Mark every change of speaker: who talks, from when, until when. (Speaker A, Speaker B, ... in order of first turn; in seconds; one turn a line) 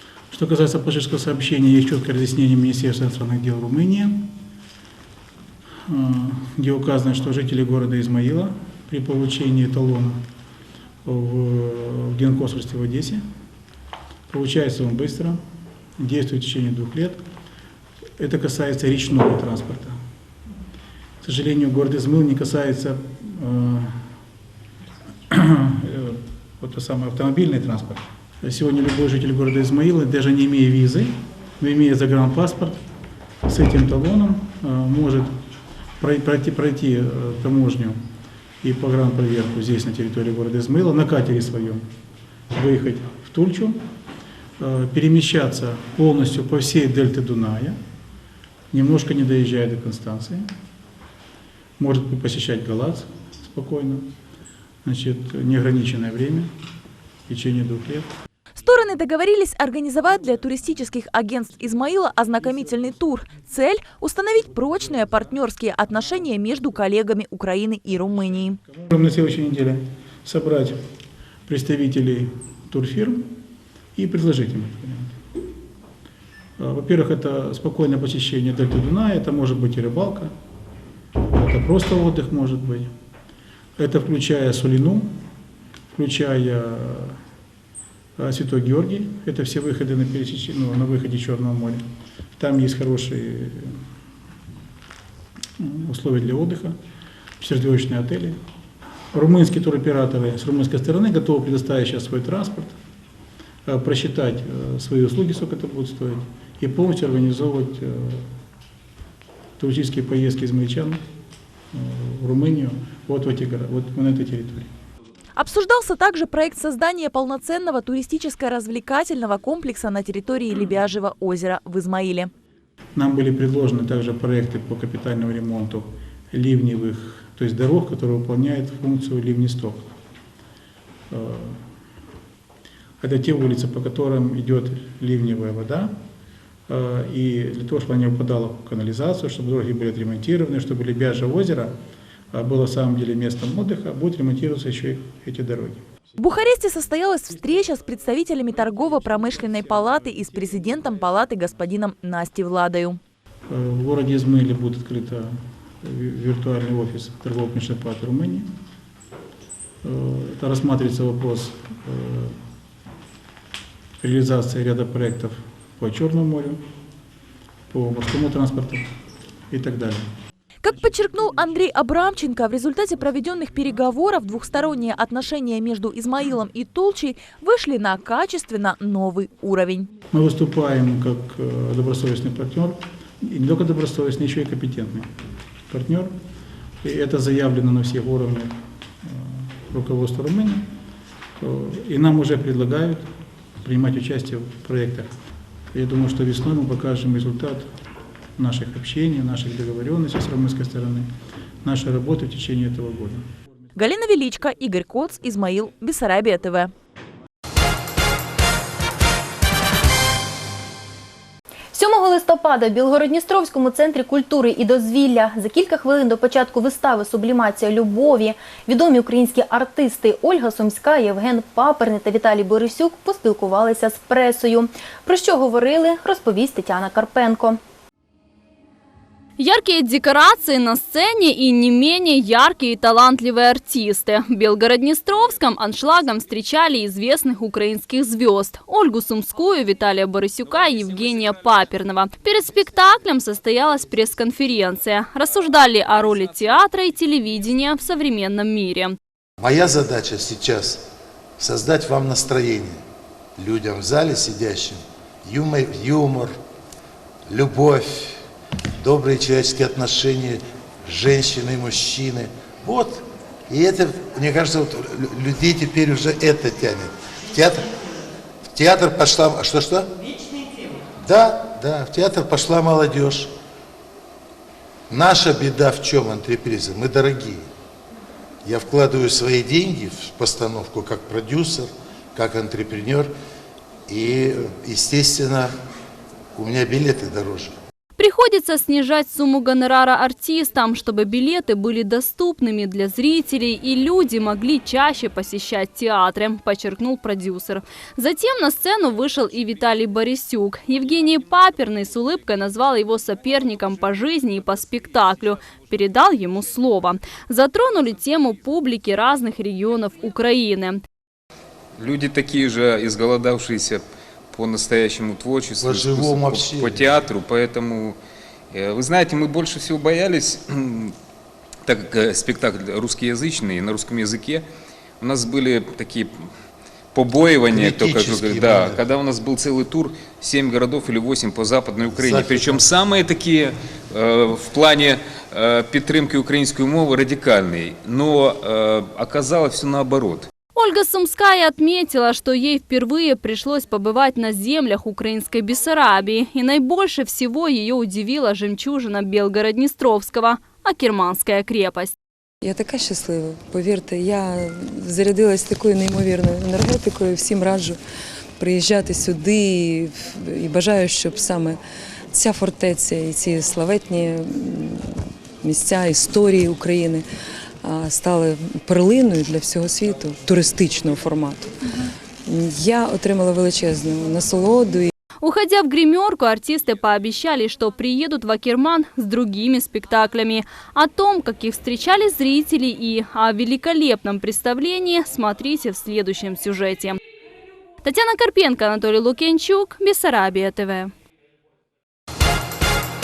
Speaker A: 0.3-4.3
Speaker A: 5.9-10.2
Speaker A: 11.0-13.2
Speaker A: 14.3-15.4
Speaker A: 16.0-17.2
Speaker A: 18.2-20.0
Speaker A: 21.2-24.0
Speaker A: 25.3-32.8
Speaker A: 33.5-35.4
Speaker A: 36.0-38.0
Speaker A: 38.6-41.9
Speaker A: 42.5-43.8
Speaker A: 44.6-47.8
Speaker A: 48.7-50.5
Speaker A: 51.8-54.1
Speaker A: 54.8-56.5
Speaker A: 57.3-58.1
Speaker B: 58.5-68.6
Speaker A: 68.9-70.8
Speaker A: 71.5-73.3
Speaker A: 74.0-75.2
Speaker A: 76.6-80.3
Speaker A: 81.3-82.9
Speaker A: 83.8-85.2
Speaker A: 85.9-87.2
Speaker A: 88.2-91.8
Speaker A: 92.4-93.8
Speaker A: 95.6-96.8
Speaker A: 97.4-98.4
Speaker A: 99.1-102.8
Speaker A: 103.7-108.3
Speaker A: 109.6-111.0
Speaker A: 111.7-114.7
Speaker B: 115.3-122.3
Speaker A: 123.0-129.9
Speaker A: 131.1-131.6
Speaker A: 133.0-135.9
Speaker A: 136.7-141.7
Speaker A: 142.3-145.8
Speaker B: 146.2-153.0
Speaker A: 153.5-158.5
Speaker A: 159.8-162.4
Speaker A: 164.0-166.6
Speaker A: 167.7-168.9
Speaker A: 169.5-170.1
Speaker B: 170.6-179.9
Speaker A: 180.1-185.1
Speaker A: 185.7-186.1
Speaker A: 186.8-190.7
Speaker A: 191.4-193.1
Speaker A: 193.6-195.1
Speaker A: 195.7-197.7
Speaker A: 198.4-201.1
Speaker A: 201.6-203.2
Speaker B: 203.8-206.7
Speaker C: 211.7-227.6
Speaker D: 229.4-248.9
Speaker E: 249.4-250.8
Speaker E: 251.4-252.8
Speaker E: 253.4-256.4
Speaker E: 257.3-258.2
Speaker E: 258.8-267.7
Speaker E: 268.5-269.9
Speaker E: 271.0-273.3
Speaker E: 274.9-277.5
Speaker E: 278.4-283.1
Speaker E: 283.9-285.5
Speaker E: 286.3-287.5
Speaker D: 288.0-310.8
Speaker F: 311.8-318.0
Speaker E: 315.6-316.8
Speaker F: 318.5-320.9
Speaker F: 321.6-324.4
Speaker F: 325.0-326.3
Speaker F: 326.9-340.3
Speaker E: 327.5-328.8
Speaker E: 331.9-332.7
Speaker D: 340.5-351.9
Speaker G: 352.4-357.8
Speaker G: 358.4-361.6
Speaker G: 362.1-364.6
Speaker G: 365.4-367.0
Speaker G: 367.7-371.4
Speaker G: 372.3-374.9
Speaker D: 375.2-387.0
Speaker D: 387.8-390.9